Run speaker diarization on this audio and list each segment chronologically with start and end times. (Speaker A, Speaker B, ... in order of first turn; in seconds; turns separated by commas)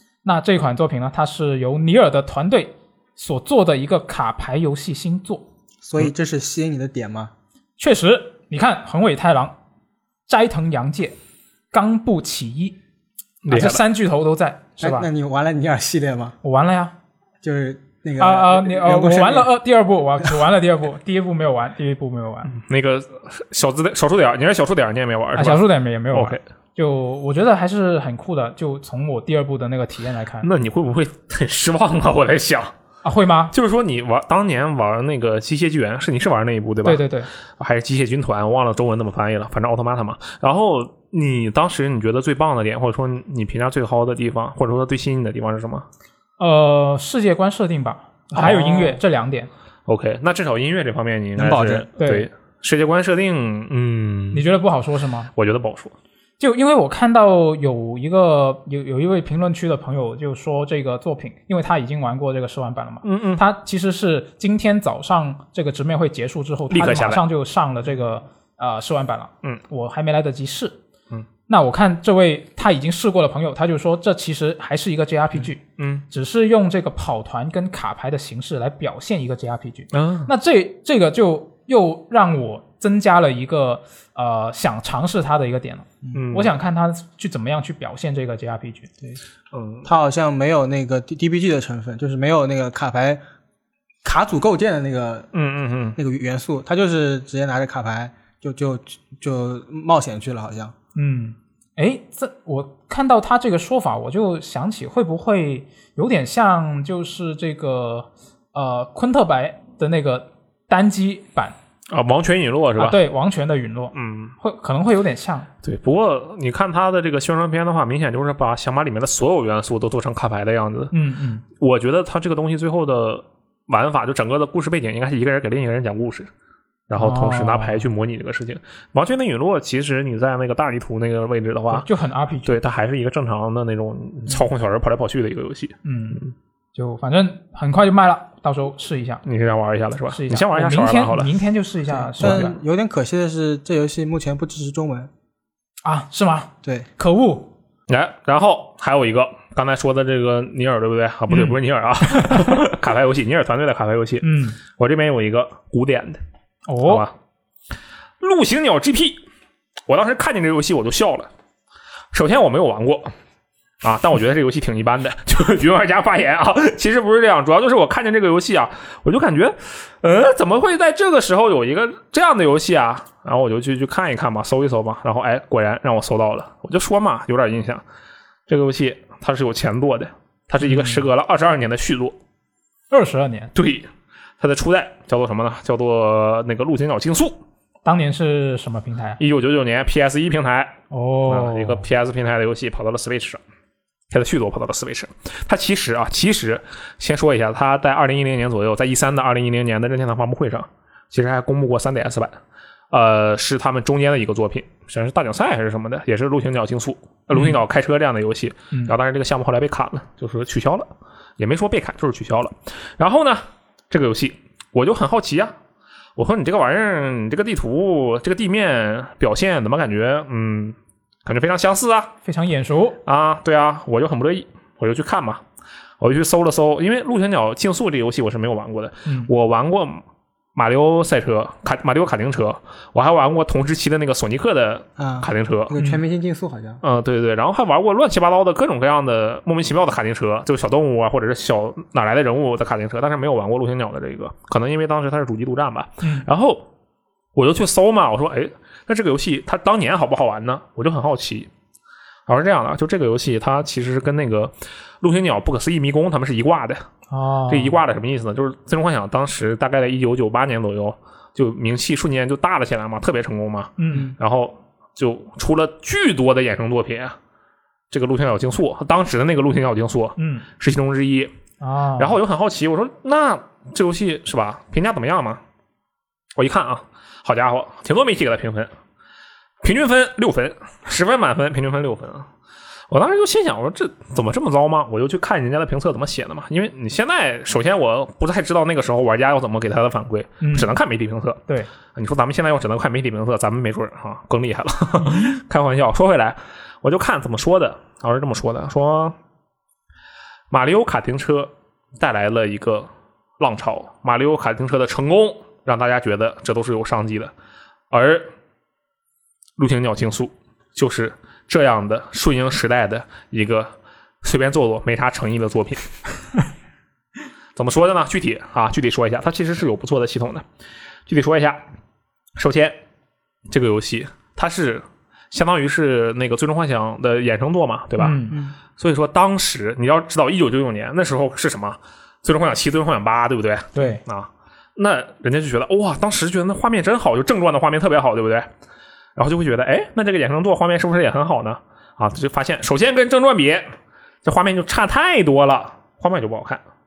Speaker A: 0.2-5.5, Speaker B: 5.8-7.3, Speaker A: 7.8-9.6, Speaker A: 10.3-11.1, Speaker A: 11.7-12.8, Speaker C: 13.4-13.8, Speaker A: 13.5-15.1, Speaker B: 14.8-16.3, Speaker A: 16.4-16.9, Speaker B: 17.4-19.5, Speaker A: 18.2-22.5, Speaker C: 22.5-26.4, Speaker A: 25.4-30.5, Speaker C: 30.4-32.7, Speaker A: 33.0-33.5, Speaker C: 33.5-37.0, Speaker A: 36.8-37.3, Speaker C: 37.6-45.9, Speaker A: 46.4-49.5, Speaker C: 48.3-49.0, Speaker C: 49.9-54.5, Speaker B: 51.4-51.9, Speaker A: 52.0-52.3, Speaker A: 54.3-55.3, Speaker C: 55.3-55.9, Speaker A: 56.4-70.8, Speaker C: 63.0-63.4, Speaker C: 66.7-67.2, Speaker A: 71.5-88.9, Speaker C: 75.8-76.0, Speaker C: 79.9-80.3, Speaker C: 86.1-86.5, Speaker C: 89.5-89.9, Speaker B: 89.8-93.2, Speaker B: 94.0-95.3, Speaker C: 95.3-96.0, Speaker B: 96.0-100.7, Speaker A: 100.9-111.5, Speaker C: 111.9-113.0, Speaker A: 112.8-115.5, Speaker C: 113.9-114.3, Speaker C: 115.6-120.9, Speaker A: 120.9-121.4, Speaker C: 121.6-126.3, Speaker C: 126.9-131.9, Speaker A: 127.0-127.8, Speaker A: 131.7-132.6, Speaker C: 132.4-136.3, Speaker A: 135.8-136.2, Speaker A: 136.7-139.2, Speaker C: 139.2-141.3, Speaker A: 140.1-142.6, Speaker B: 142.0-145.1, Speaker A: 145.8-147.5, Speaker B: 146.6-146.9, Speaker C: 147.9-156.2, Speaker A: 151.3-152.6, Speaker A: 154.2-154.6, Speaker A: 156.7-157.0, Speaker C: 156.8-157.1, Speaker C: 158.2-159.2, Speaker C: 159.9-161.3, Speaker C: 162.1-163.1, Speaker C: 163.8-177.8, Speaker C: 178.5-182.2, Speaker A: 180.6-181.1, Speaker A: 182.9-183.5, Speaker C: 183.5-187.4, Speaker A: 187.8-189.2, Speaker C: 189.2-193.4, Speaker A: 190.9-191.8, Speaker C: 194.1-202.4, Speaker C: 202.9-215.5, Speaker A: 207.3-207.6, Speaker C: 216.2-222.1, Speaker A: 222.2-223.0, Speaker C: 223.0-225.4, Speaker C: 226.0-230.0, Speaker C: 230.5-235.8, Speaker B: 235.0-236.8, Speaker C: 236.8-246.7, Speaker A: 246.0-246.3, Speaker C: 247.3-251.5, Speaker C: 252.3-256.8, Speaker A: 257.1-257.8, Speaker C: 257.5-267.2, Speaker A: 263.8-264.1, Speaker C: 267.9-271.3, Speaker A: 270.2-270.4, Speaker A: 271.6-272.2, Speaker C: 272.0-275.4, Speaker C: 276.4-278.7, Speaker C: 279.6-282.3, Speaker C: 282.9-291.4, Speaker A: 290.4-290.7, Speaker C: 291.9-299.1, Speaker C: 300.5-307.3, Speaker C: 307.9-308.3, Speaker C: 309.6-315.8, Speaker C: 317.6-320.4, Speaker C: 321.1-321.6, Speaker C: 322.4-322.8, Speaker C: 323.5-338.5, Speaker A: 328.0-328.4, Speaker A: 333.7-334.0, Speaker C: 339.1-343.7, Speaker C: 344.2-346.6